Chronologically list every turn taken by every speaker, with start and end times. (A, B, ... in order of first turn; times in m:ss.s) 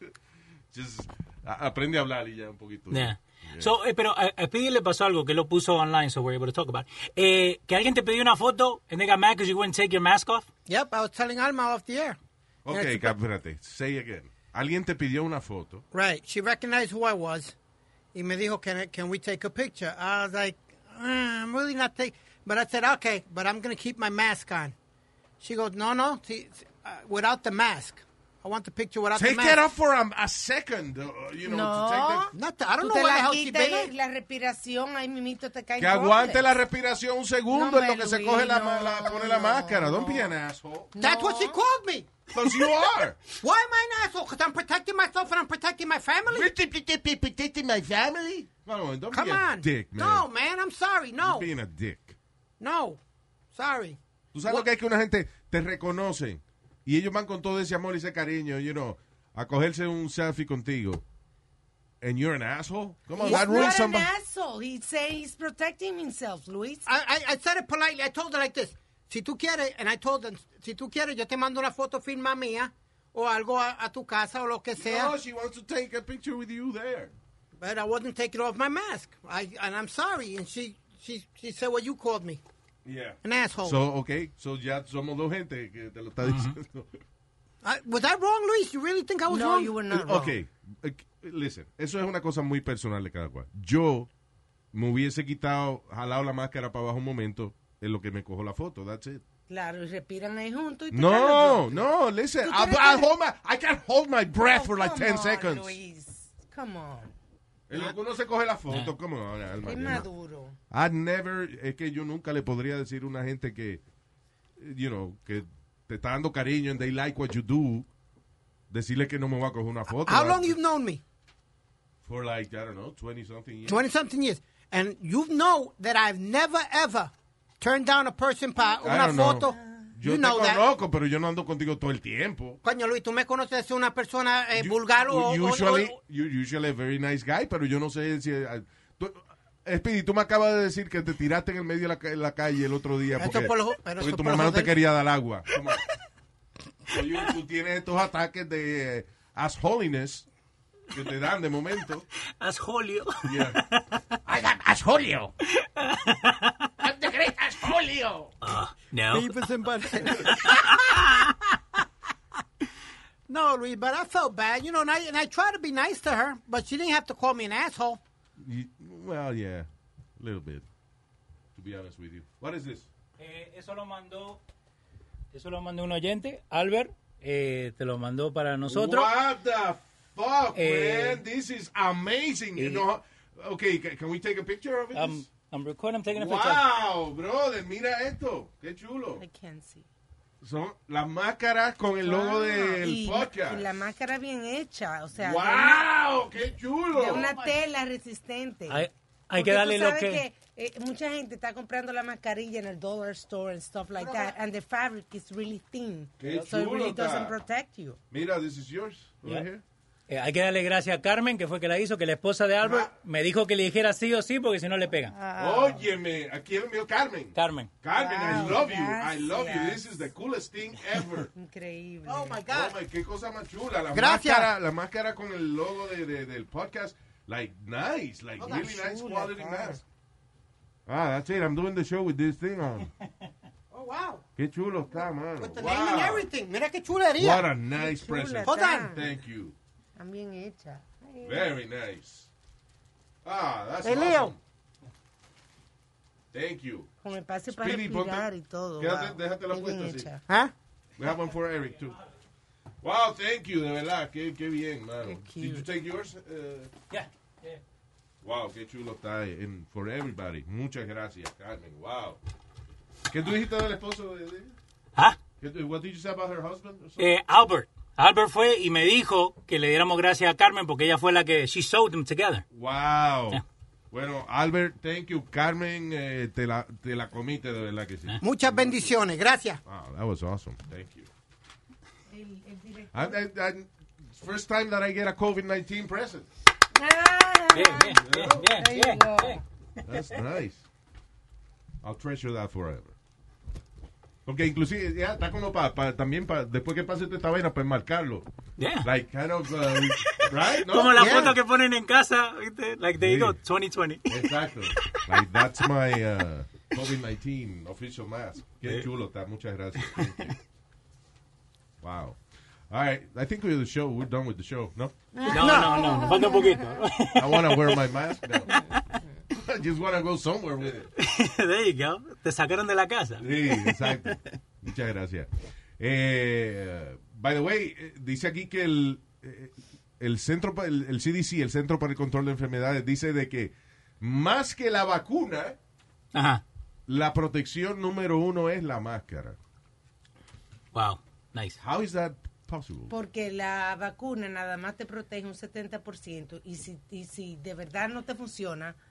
0:00.7-0:03.7 A
0:02.9-0:10.5 B
0:10.7-0:12.2 C
0:12.6-0:15.8 A
0:12.7-0:13.1 C
0:15.9-0:17.6 C
0:18.1-0:24.8 C
0:25.4-0:29.6 C
0:29.1-0:32.3 A
0:31.4-0:36.6 D
0:32.3-0:33.9 C
0:35.8-0:40.9 A
0:37.5-0:40.3 D
0:40.9-0:41.6 D
0:41.0-0:42.1 C
0:42.3-0:43.2 A
0:43.4-0:46.5 C
0:46.3-0:50.3 A
0:49.1-0:51.5 C
0:51.2-0:52.2 A
0:52.6-0:53.0 C
0:53.5-0:54.6 C
0:54.3-1:01.0 A
1:02.0-1:04.1 A
1:03.2-1:03.8 C
1:03.2-1:06.9 D
1:06.9-1:15.1 C
1:14.8-1:17.1 A
1:17.6-1:22.4 C
1:22.8-1:26.9 A
1:23.2-1:23.8 C
1:26.2-1:26.6 B
1:27.6-1:29.8 C
1:29.3-1:30.4 D
1:29.9-1:34.1 A
1:34.7-1:39.2 A
1:39.5-1:41.9 D
1:40.9-1:45.8 A
1:42.4-1:43.1 D
1:44.4-1:47.1 D
1:47.7-1:50.1 A
1:49.6-1:50.6 D
1:50.7-1:53.8 A
1:54.6-1:57.9 A
1:58.7-2:00.6 A
2:00.0-2:01.0 C
2:02.0-2:03.9 A
2:03.6-2:10.6 C
2:08.8-2:12.6 A
2:09.6-2:09.9 D
2:12.6-2:15.9 C
2:14.5-2:25.8 A
2:23.2-2:24.7 C
2:26.9-2:30.3 A
2:30.9-2:32.1 A
2:32.4-2:34.2 B
2:33.2-2:33.6 A
2:34.3-2:35.3 A
2:35.4-2:36.9 B
2:36.8-2:38.3 A
2:38.4-2:39.3 B
2:39.1-2:41.3 C
2:40.0-2:41.3 B
2:43.3-2:48.0 C
2:48.4-2:50.6 A
2:51.6-2:52.9 A
2:53.2-2:54.4 B
2:55.3-2:59.1 B
2:58.6-3:05.2 A
3:00.6-3:01.2 B
3:02.6-3:02.8 B
3:04.9-3:06.6 B
3:06.1-3:09.2 A
3:09.2-3:09.9 D
3:10.4-3:13.6 A
3:12.0-3:15.9 D
3:15.2-3:17.3 A
3:16.9-3:17.6 C
3:17.0-3:28.0 D
3:18.7-3:20.2 B
3:24.0-3:24.3 C
3:26.2-3:27.4 A
3:28.1-3:29.6 A
3:30.1-3:35.1 B
3:32.6-3:32.9 A
3:35.1-3:35.9 D
3:35.4-3:41.3 A
3:37.4-3:37.7 B
3:37.9-3:39.9 D
3:41.3-3:42.4 D
3:42.1-3:42.8 C
3:42.5-3:49.8 A
3:43.9-3:44.5 C
3:48.4-3:49.6 C
3:50.9-3:52.9 A
3:53.7-3:54.2 C
3:54.4-3:56.3 A
3:55.4-3:57.5 C
3:57.2-3:59.6 A
3:57.8-3:59.0 D
3:58.4-3:59.0 C
4:00.0-4:01.4 D
4:01.2-4:02.3 A
4:03.2-4:04.4 A
4:03.8-4:04.3 C
4:06.3-4:06.9 A
4:07.0-4:10.2 D
4:07.5-4:10.1 A
4:10.3-4:10.5 C
4:11.0-4:12.0 A
4:12.8-4:16.7 A
4:15.0-4:15.6 D
4:16.9-4:17.6 B
4:18.2-4:22.2 A
4:23.1-4:24.6 A
4:25.4-4:27.1 A
4:27.0-4:32.4 B
4:32.5-4:39.0 A
4:38.2-4:39.6 C
4:39.6-4:41.1 A
4:42.1-4:43.2 D
4:42.9-4:46.3 A
4:46.8-4:49.4 D
4:47.5-4:49.4 B
4:47.9-4:48.5 A
4:49.8-4:50.6 A
4:51.8-4:52.9 A
4:54.3-4:58.3 A
4:58.6-4:58.9 B
4:58.8-5:01.4 A
4:59.8-5:05.4 B
5:01.0-5:01.3 C
5:03.0-5:03.4 A
5:04.1-5:10.4 A
5:09.8-5:10.1 B
5:11.8-5:12.2 A
5:12.7-5:15.0 A
5:15.2-5:16.5 D
5:15.3-5:16.3 C
5:15.3-5:17.9 B
5:17.1-5:18.7 A
5:18.5-5:18.8 B
5:19.3-5:20.9 A
5:21.0-5:24.2 B
5:23.2-5:35.6 A
5:36.1-5:36.4 B
5:36.9-5:39.4 A
5:40.7-5:41.6 B
5:41.6-5:42.9 A
5:42.9-5:48.8 D